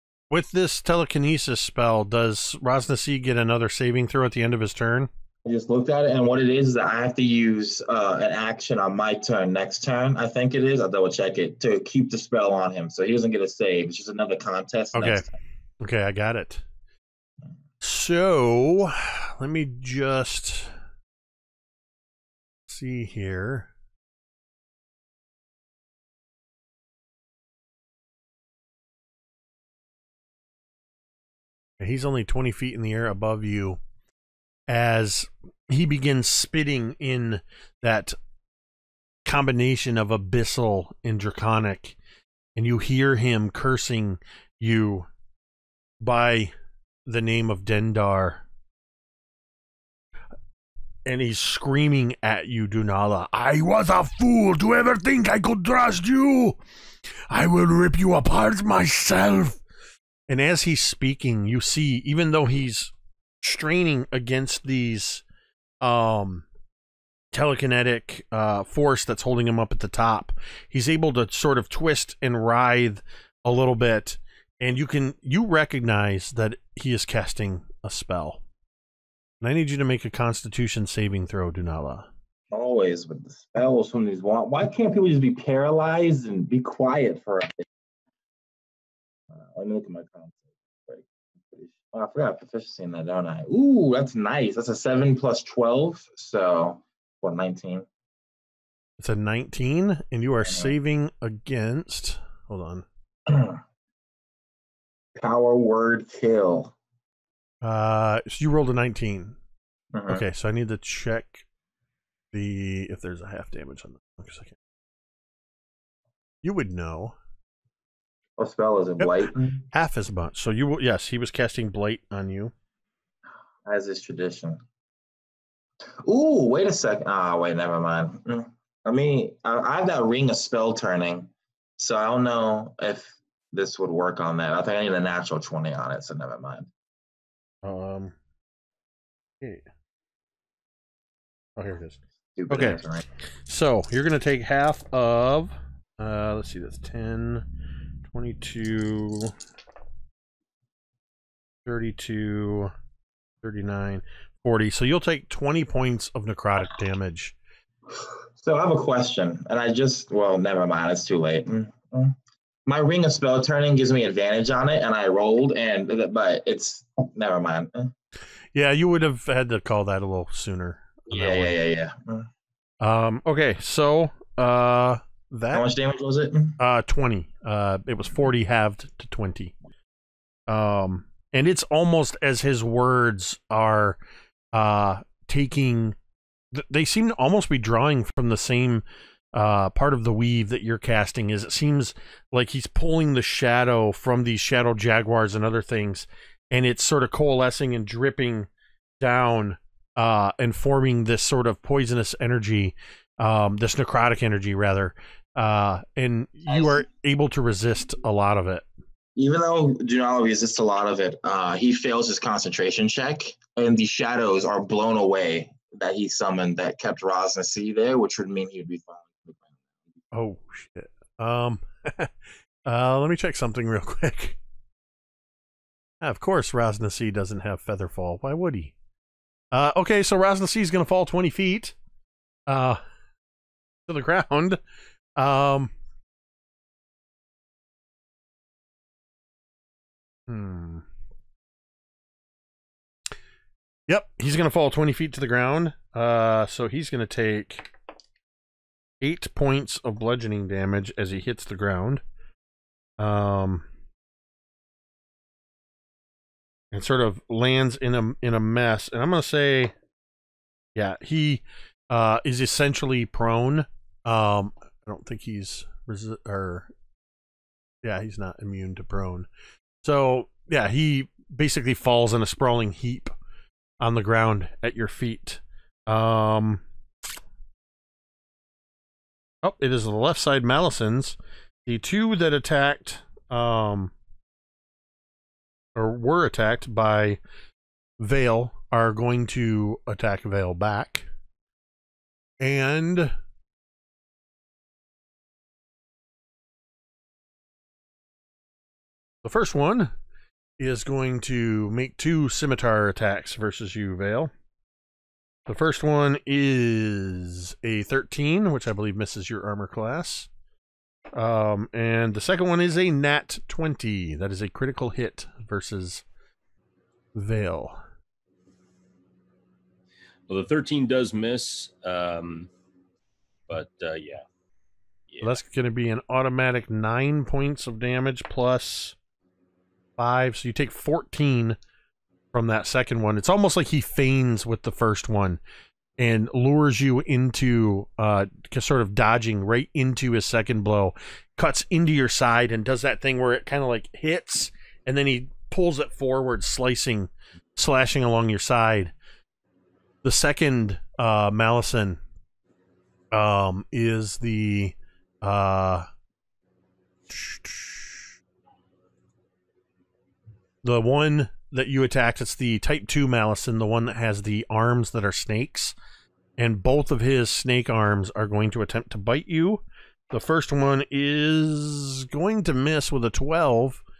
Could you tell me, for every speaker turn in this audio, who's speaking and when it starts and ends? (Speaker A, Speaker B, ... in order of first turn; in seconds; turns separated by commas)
Speaker A: 0.3-5.1, Speaker B: 5.4-15.3, Speaker A: 14.9-15.2, Speaker A: 15.8-16.6, Speaker A: 17.8-20.7, Speaker A: 22.7-23.7, Speaker A: 31.8-33.8, Speaker A: 34.7-38.1, Speaker A: 39.2-42.0, Speaker A: 42.5-45.1, Speaker A: 46.0-46.5, Speaker A: 47.0-48.4, Speaker A: 51.0-56.6, Speaker A: 57.3-59.6, Speaker A: 60.3-65.2, Speaker A: 65.8-66.5, Speaker A: 67.3-78.4, Speaker A: 79.4-82.1, Speaker B: 82.5-87.6, Speaker B: 89.3-97.9, Speaker A: 99.0-102.8, Speaker B: 100.4-100.7, Speaker B: 103.3-103.6, Speaker B: 105.2-106.7, Speaker A: 107.6-109.3, Speaker B: 109.9-110.2, Speaker A: 110.1-111.4, Speaker A: 112.3-114.5, Speaker A: 116.4-117.1, Speaker B: 118.4-119.6, Speaker A: 119.0-122.5, Speaker B: 123.7-124.6, Speaker B: 126.0-136.7, Speaker A: 137.6-138.1, Speaker A: 141.6-142.0, Speaker B: 142.3-143.0, Speaker A: 142.5-142.8, Speaker A: 143.4-147.5, Speaker A: 148.0-149.3, Speaker A: 151.7-152.7, Speaker A: 153.4-157.3, Speaker B: 158.0-167.9, Speaker A: 168.5-171.6, Speaker B: 171.1-172.3, Speaker A: 172.8-175.7, Speaker B: 175.5-176.6, Speaker A: 176.6-179.5, Speaker A: 180.5-184.0, Speaker A: 184.5-185.9, Speaker A: 186.5-198.5, Speaker A: 199.0-208.7, Speaker B: 206.5-206.8, Speaker B: 209.2-219.4, Speaker A: 220.1-222.1, Speaker A: 222.7-224.4, Speaker A: 226.0-228.7, Speaker A: 229.5-231.8, Speaker A: 232.5-232.8, Speaker A: 233.9-234.6, Speaker A: 235.2-235.7, Speaker A: 240.3-240.8, Speaker A: 243.9-247.7, Speaker A: 249.0-252.0, Speaker A: 253.0-253.6, Speaker A: 256.7-259.7, Speaker A: 260.8-266.7, Speaker A: 267.8-269.3, Speaker A: 269.8-273.1, Speaker A: 273.8-276.6, Speaker A: 279.4-283.9, Speaker A: 285.8-287.2, Speaker A: 288.0-291.1, Speaker A: 292.4-293.1, Speaker A: 299.2-299.9, Speaker A: 300.6-304.3, Speaker A: 305.5-310.3, Speaker A: 311.1-316.0, Speaker A: 317.1-317.8, Speaker C: 320.3-322.5, Speaker C: 323.5-324.2, Speaker C: 325.1-325.4, Speaker A: 325.2-328.9, Speaker A: 330.0-331.6, Speaker A: 332.3-335.4, Speaker A: 336.0-348.9, Speaker A: 350.0-352.0, Speaker A: 353.1-355.9, Speaker A: 357.1-358.0, Speaker A: 360.6-365.7, Speaker A: 366.4-373.8